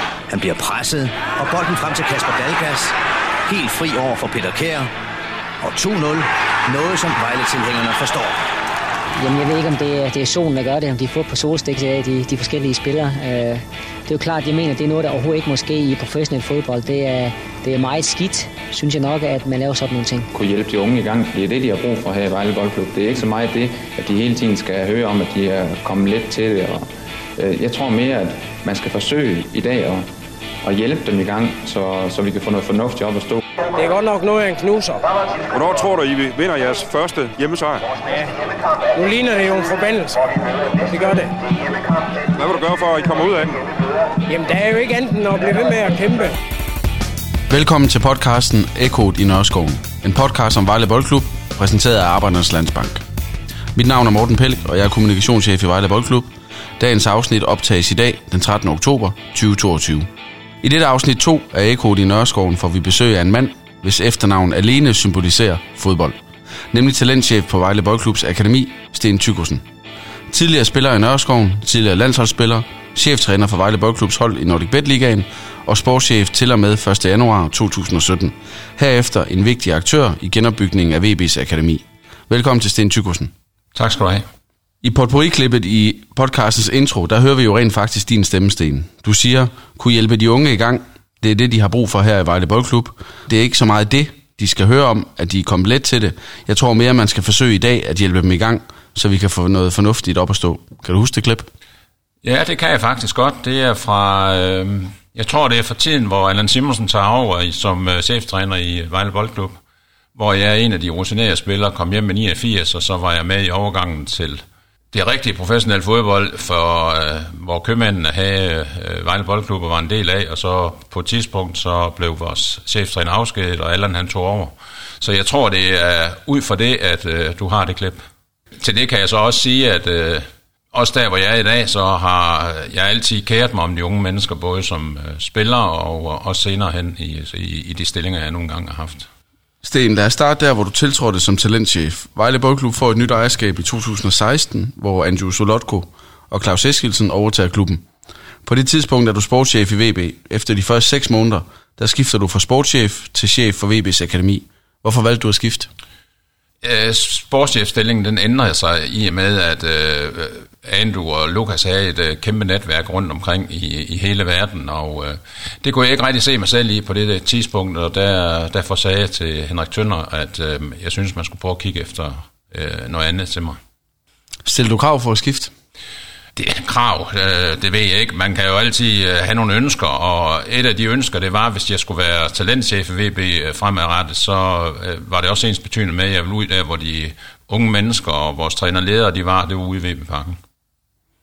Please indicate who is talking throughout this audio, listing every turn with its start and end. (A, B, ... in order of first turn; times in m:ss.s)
0:00.3-0:04.9 A
0:05.6-0:08.4 A
0:09.2-0:20.3 B
0:20.3-0:26.8 C
0:27.4-0:30.0 C
0:30.6-0:33.4 C
0:33.7-0:35.1 D
0:35.5-0:37.8 E
0:38.9-0:40.2 D
0:40.8-0:41.4 D
0:42.3-0:43.6 E
0:44.3-0:46.4 D
0:47.5-0:53.0 F
0:53.7-1:00.1 F
1:00.6-1:06.2 F
1:06.7-1:09.6 F
1:10.3-1:23.3 F
1:23.7-1:24.2 G
1:24.8-1:41.5 F
1:42.2-1:49.6 G
1:50.2-2:08.0 G
2:08.6-2:19.1 G
2:19.6-2:27.8 F
2:28.4-2:35.7 F
2:36.6-2:53.6 G
2:54.4-2:55.5 F
2:56.4-3:10.4 G